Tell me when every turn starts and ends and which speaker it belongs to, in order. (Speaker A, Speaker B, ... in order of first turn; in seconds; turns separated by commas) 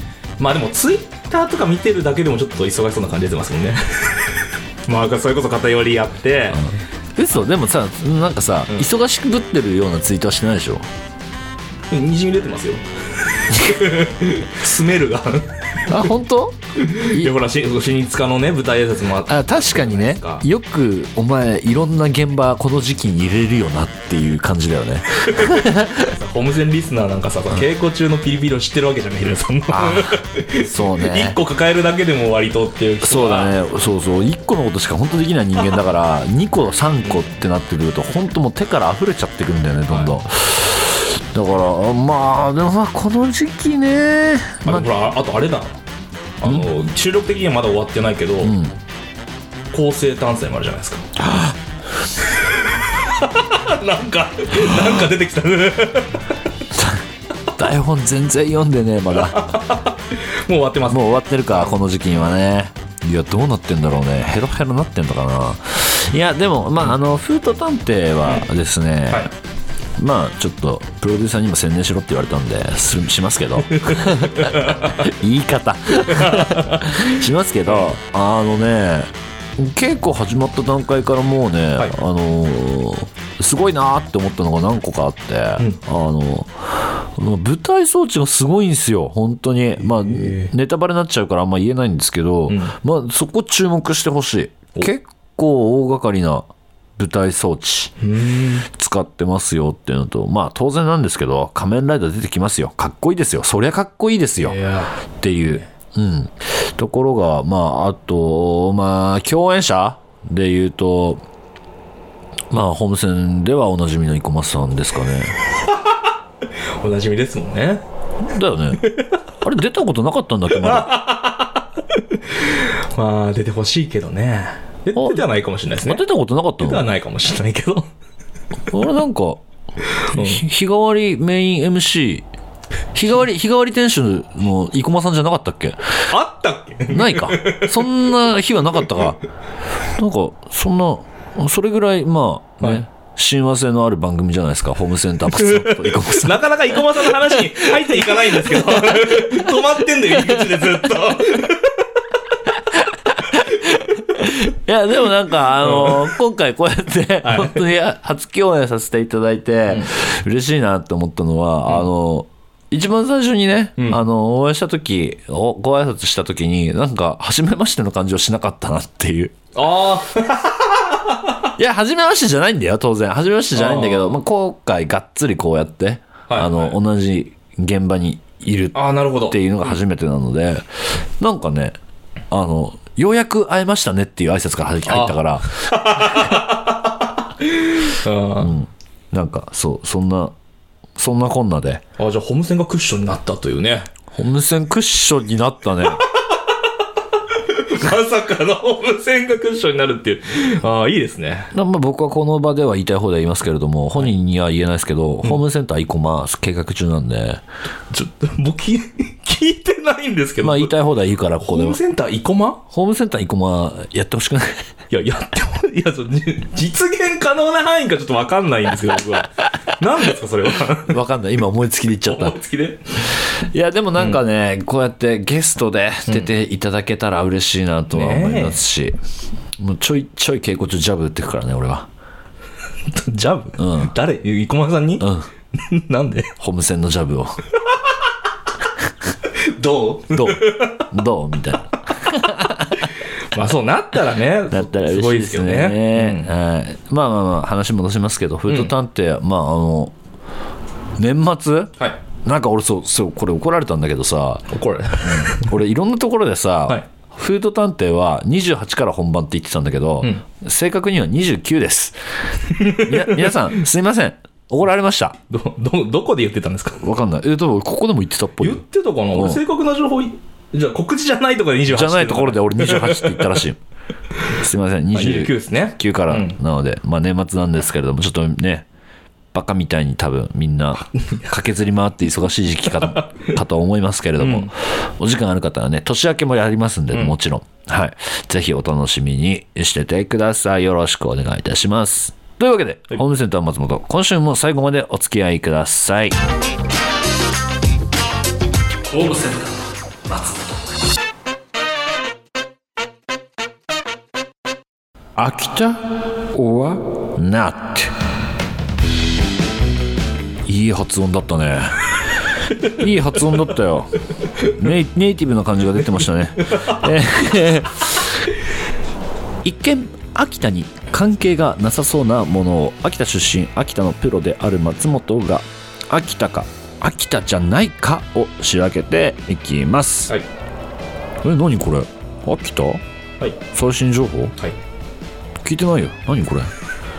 Speaker A: 0.4-6.7, Speaker B: 7.2-10.9, Speaker A: 11.9-16.0, Speaker B: 13.5-13.8, Speaker B: 15.9-17.3, Speaker A: 16.8-20.4, Speaker B: 19.3-26.1, Speaker A: 25.3-33.6, Speaker B: 29.7-31.4, Speaker B: 33.0-44.9, Speaker A: 44.7-45.8, Speaker A: 46.4-48.5, Speaker B: 48.4-48.8, Speaker A: 49.7-51.1, Speaker B: 51.2-51.6, Speaker A: 52.3-56.4, Speaker B: 56.7-59.6, Speaker A: 59.2-61.8, Speaker B: 60.9-69.3, Speaker A: 68.2-68.5, Speaker B: 70.0-98.0, Speaker A: 73.7-75.0, Speaker A: 76.1-77.1, Speaker A: 77.7-77.9, Speaker A: 90.1-90.5, Speaker A: 92.5-92.7, Speaker A: 98.0-98.7, Speaker B: 98.7-104.6, Speaker A: 104.4-104.9, Speaker B: 105.2-111.2, Speaker B: 112.5-115.4, Speaker A: 115.7-115.9, Speaker A: 116.7-117.8, Speaker B: 118.2-120.9, Speaker A: 118.8-119.1, Speaker A: 120.5-126.0, Speaker B: 125.0-125.2, Speaker B: 125.8-126.9, Speaker A: 126.6-127.9, Speaker B: 128.7-129.4, Speaker B: 130.0-132.2, Speaker A: 130.0-130.4, Speaker B: 132.9-136.1, Speaker A: 136.1-137.9, Speaker B: 136.9-139.2, Speaker B: 140.0-149.3, Speaker A: 142.6-142.8, Speaker A: 145.3-151.8, Speaker B: 150.3-150.6, Speaker B: 152.5-169.4, Speaker A: 155.6-156.1, Speaker A: 157.2-157.7, Speaker A: 169.5-171.4, Speaker B: 171.6-181.8, Speaker A: 173.6-174.2, Speaker A: 176.3-176.8, Speaker A: 178.7-179.4, Speaker B: 182.3-186.2, Speaker A: 184.9-188.5, Speaker B: 188.4-190.3, Speaker B: 191.0-191.8, Speaker A: 192.0-193.9, Speaker B: 194.1-196.0, Speaker A: 197.3-201.5, Speaker B: 201.5-207.4, Speaker A: 207.9-210.8, Speaker B: 210.4-211.8, Speaker A: 211.4-212.6, Speaker B: 212.7-214.7, Speaker A: 214.9-221.0, Speaker B: 220.8-222.4, Speaker A: 222.1-223.1, Speaker B: 223.1-229.0, Speaker A: 224.0-224.2, Speaker A: 227.9-228.6, Speaker B: 229.6-231.9, Speaker A: 232.9-236.3, Speaker B: 233.6-233.9, Speaker B: 235.0-235.3, Speaker B: 236.4-237.4, Speaker A: 239.3-240.8, Speaker B: 240.1-242.9, Speaker A: 243.0-246.3, Speaker B: 244.5-249.9, Speaker A: 248.5-248.7, Speaker B: 251.0-254.5, Speaker A: 254.5-255.6, Speaker B: 255.0-262.0, Speaker B: 262.5-265.2, Speaker A: 262.5-263.5, Speaker A: 265.3-266.8, Speaker B: 266.8-268.6, Speaker A: 268.4-273.4, Speaker B: 269.1-269.4, Speaker B: 271.7-273.6, Speaker B: 274.3-278.7, Speaker A: 274.9-276.4, Speaker B: 279.3-296.2, Speaker A: 284.2-284.5, Speaker A: 286.9-287.2, Speaker B: 298.9-299.5, Speaker B: 300.1-300.6, Speaker B: 305.2-307.9, Speaker B: 310.5-318.2, Speaker B: 319.4-330.1, Speaker B: 331.2-332.8, Speaker B: 333.5-334.4, Speaker B: 335.4-336.5